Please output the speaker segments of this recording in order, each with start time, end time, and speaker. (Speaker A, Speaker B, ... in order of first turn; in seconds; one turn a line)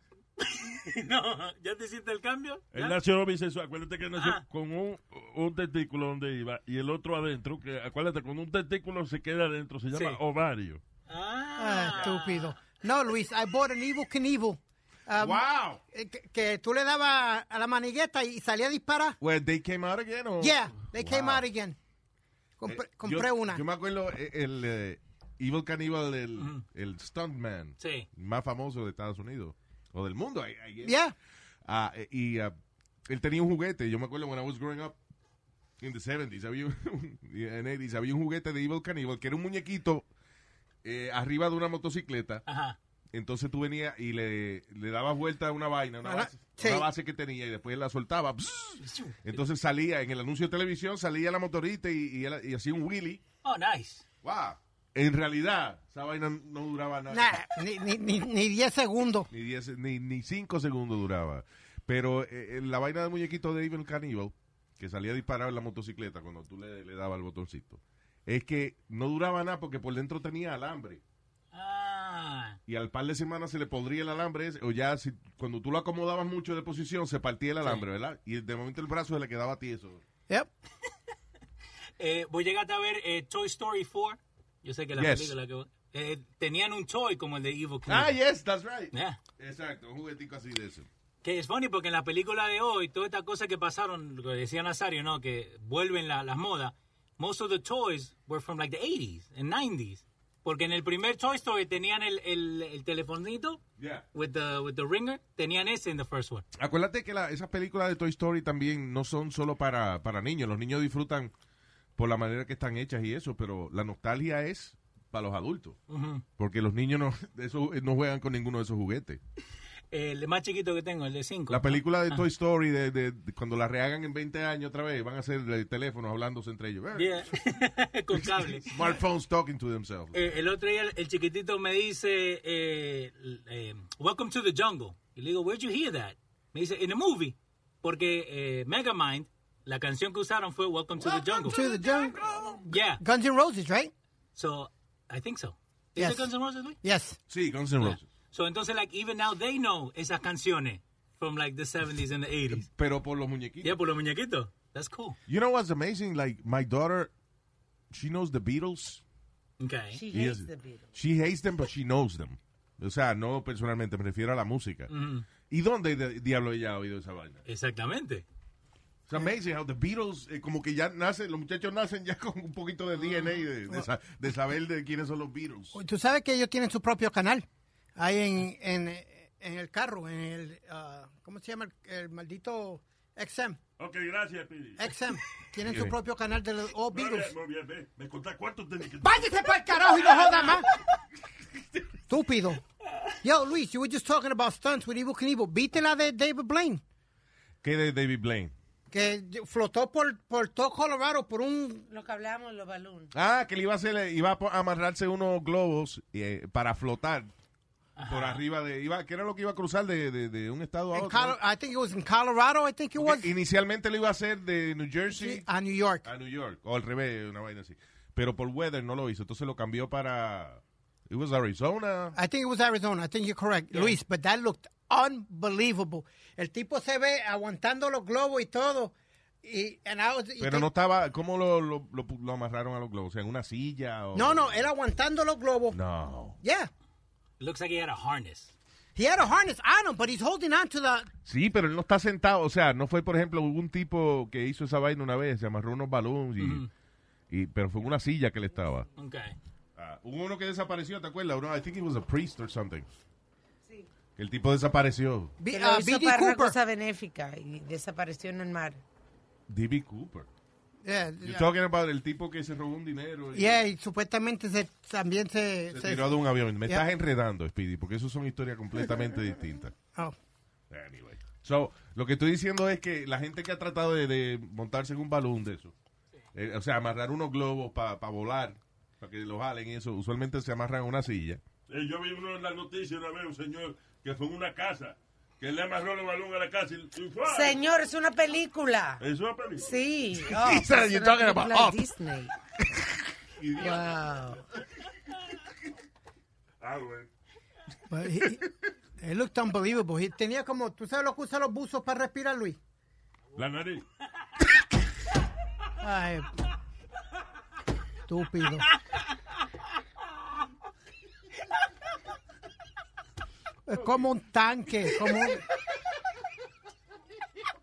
Speaker A: 0.4-3.0
Speaker B: 2.7-10.8
Speaker A: 4.2-4.4
Speaker A: 9.9-10.2
Speaker A: 11.1-12.6
Speaker C: 11.6-19.2
Speaker D: 15.1-15.8
Speaker D: 19.2-21.4
Speaker C: 20.4-21.8
Speaker C: 22.6-23.6
Speaker D: 22.7-31.0
Speaker A: 26.4-26.6
Speaker A: 27.8-28.1
Speaker C: 30.8-31.1
Speaker D: 31.6-32.5
Speaker D: 33.0-35.0
Speaker D: 35.8-40.1
Speaker D: 40.8-42.4
Speaker A: 42.5-42.8
Speaker D: 43.1-53.2
Speaker C: 46.0-46.9
Speaker A: 48.8-49.2
Speaker A: 53.4-54.0
Speaker D: 54.2-57.4
Speaker C: 57.1-59.3
Speaker D: 59.3-71.0
Speaker A: 71.5-72.6
Speaker D: 72.7-80.0
Speaker A: 82.0-88.2
Speaker D: 85.0-85.3
Speaker D: 87.8-90.9
Speaker A: 88.9-89.2
Speaker A: 91.2-103.6
Speaker D: 103.8-104.0
Speaker A: 104.1-106.4
Speaker D: 106.6-111.3
Speaker D: 112.0-115.8
Speaker A: 115.9-116.2
Speaker D: 116.4-119.2
Speaker A: 119.9-122.2
Speaker D: 121.5-127.3
Speaker A: 126.9-128.8
Speaker D: 128.1-130.3
Speaker A: 130.1-141.6
Speaker C: 141.4-143.9
Speaker A: 142.7-143.0
Speaker A: 144.3-146.8
Speaker C: 146.0-146.3
Speaker C: 146.8-147.2
Speaker D: 147.3-148.1
Speaker A: 147.8-152.7
Speaker D: 152.7-153.8
Speaker A: 153.6-155.2
Speaker D: 155.3-157.1
Speaker D: 157.9-159.0
Speaker A: 159.6-160.0
Speaker E: 159.9-160.9
Speaker D: 160.1-164.9
Speaker A: 164.9-165.2
Speaker D: 165.5-167.4
Speaker A: 167.4-168.2
Speaker D: 169.1-175.8
Speaker C: 175.7-177.4
Speaker C: 178.0-183.6
Speaker B: 183.8-184.9
Speaker C: 184.8-187.3
Speaker D: 185.6-185.9
Speaker B: 186.9-189.3
Speaker C: 189.0-190.7
Speaker C: 192.1-192.6
Speaker C: 193.2-196.8
Speaker D: 197.6-198.5
Speaker C: 198.9-201.8
Speaker E: 201.9-203.1
Speaker D: 203.1-207.3
Speaker A: 208.0-208.4
Speaker D: 208.0-211.4
Speaker C: 210.9-213.3
Speaker D: 213.0-215.5
Speaker C: 215.1-216.1
Speaker D: 216.0-222.2
Speaker C: 222.1-230.7
Speaker D: 230.4-234.6
Speaker C: 234.1-235.8
Speaker D: 235.7-236.4
Speaker C: 236.4-236.7
Speaker A: 237.4-238.5
Speaker C: 238.9-241.1
Speaker D: 241.2-246.6
Speaker A: 246.4-246.7
Speaker D: 247.3-248.9
Speaker A: 248.9-249.3
Speaker D: 249.8-252.9
Speaker D: 254.2-255.3
Speaker C: 255.4-256.6
Speaker E: 255.5-258.8
Speaker D: 259.5-260.3
Speaker C: 260.8-261.5
Speaker D: 261.2-263.6
Speaker C: 263.3-266.1
Speaker D: 265.7-269.7
Speaker D: 270.7-275.7
Speaker D: 276.3-281.4
Speaker B: 281.7-287.6
Speaker E: 287.3-289.0
Speaker B: 289.0-289.7
Speaker E: 289.6-292.3
Speaker D: 290.2-291.8
Speaker D: 293.4-293.9
Speaker E: 293.6-294.4
Speaker B: 296.6-297.1
Speaker C: 297.9-302.6
Speaker B: 303.3-303.8
Speaker C: 305.8-306.3
Speaker C: 308.1-308.7
Speaker C: 313.6-315.4